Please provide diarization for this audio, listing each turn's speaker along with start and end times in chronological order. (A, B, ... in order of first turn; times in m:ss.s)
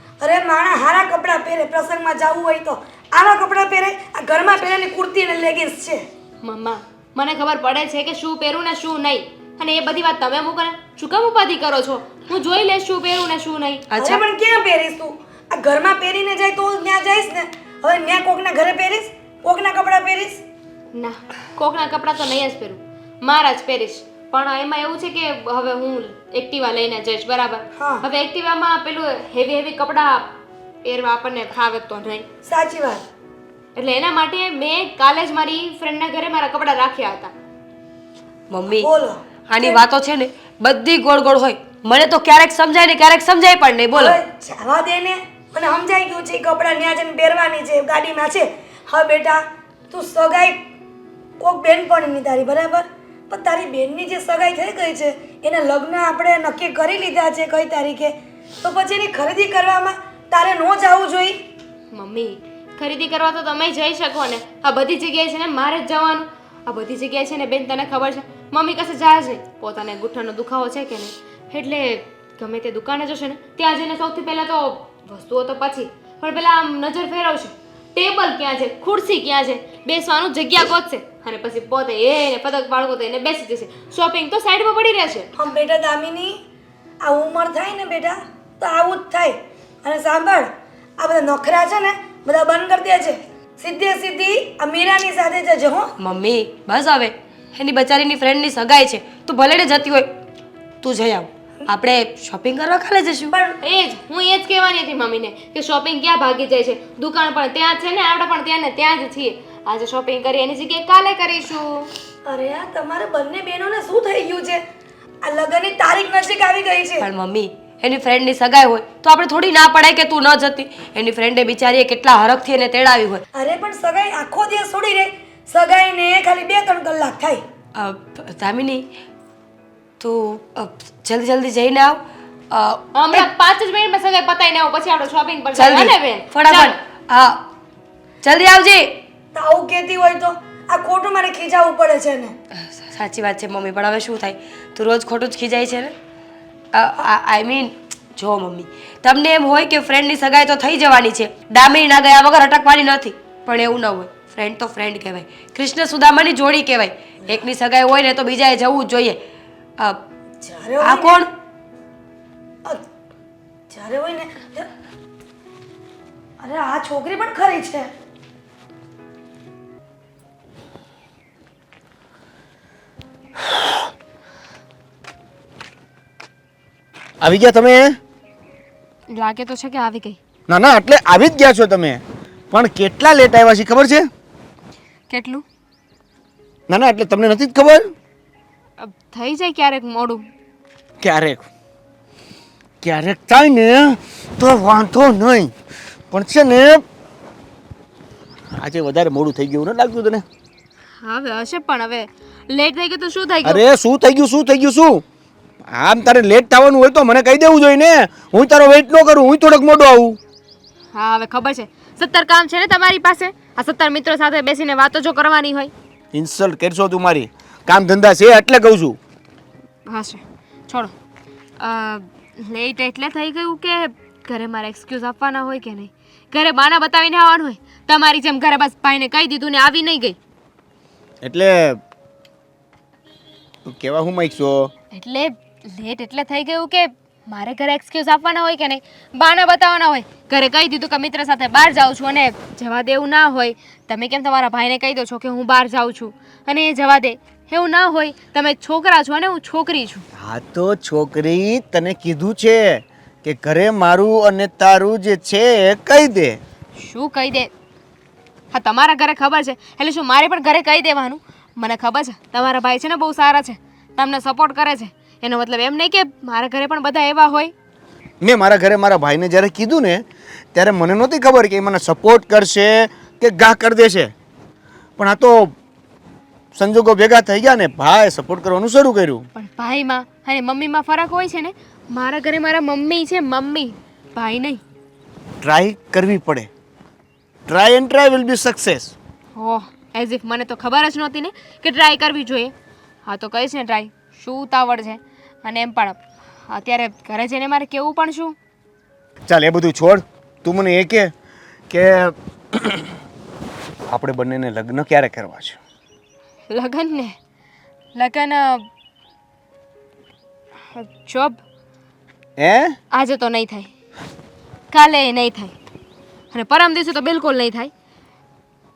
0:00.2-0:06.0 A
0:06.4-0:13.9 B
0:13.9-0:14.2 C
0:14.0-0:20.4 A
0:20.9-0:30.3 B
0:27.8-0:28.0 A
0:30.8-0:32.2 B
0:32.4-0:33.0 A
0:33.8-0:37.3 B
0:38.5-0:38.9 C
0:38.6-0:39.8 A
0:39.5-0:44.2 C
0:43.9-0:50.6 A
0:51.4-1:01.4 A
1:01.9-1:25.3 B
1:25.4-1:26.4 A
1:27.0-1:35.9 A
1:36.0-1:40.1 C
1:40.8-1:43.3 C
1:43.3-1:43.6 A
1:43.6-1:51.9 B
1:52.2-1:54.6 A
1:55.2-1:57.1 A
1:57.0-2:03.2 C
2:03.3-2:07.4 A
2:07.7-2:08.8 C
2:10.0-2:13.3 C
2:12.9-2:16.7 B
2:15.5-2:17.5 C
2:18.2-2:19.0 C
2:19.3-2:22.3 A
2:22.8-2:25.9 C
2:26.7-2:39.2 C
2:39.8-2:40.0 C
2:40.4-2:41.3 A
2:40.8-2:41.3 C
2:43.7-2:44.7 A
2:46.4-2:47.9 A
2:57.2-2:58.0 D
2:59.1-3:00.2 B
3:00.5-3:04.1 D
3:05.1-3:05.4 B
3:06.7-3:07.9 D
3:08.8-3:10.2 B
3:11.0-3:11.5 D
3:12.8-3:15.5 D
3:16.1-3:16.8 D
3:18.6-3:20.2 D
3:21.0-3:23.6 B
3:23.4-3:25.0 D
3:25.7-3:30.2 D
3:30.9-3:35.7 B
3:36.1-3:39.0 D
3:39.8-3:40.9 B
3:41.6-3:50.2 B
3:51.2-3:51.8 D
3:53.6-3:54.7 D
3:54.9-4:10.0 B
4:10.2-4:16.4 D
4:16.8-4:17.5 B
4:18.5-4:27.5 B
4:28.2-4:34.1 D
4:35.0-4:35.5 D
4:36.5-4:39.3 D
4:39.3-4:44.6 B
4:45.4-4:46.5 D
4:47.5-4:48.9 D
4:49.3-4:52.5 B
4:53.0-4:58.4 B
4:59.3-5:01.1 D
5:01.7-5:02.9 D
5:03.9-5:05.6 D
5:06.5-5:07.2 B
5:07.9-5:08.7 B
5:10.7-5:11.4 B
5:12.4-5:12.8 D
5:12.9-5:13.7 B
5:14.7-5:15.5 B
5:16.3-5:17.7 B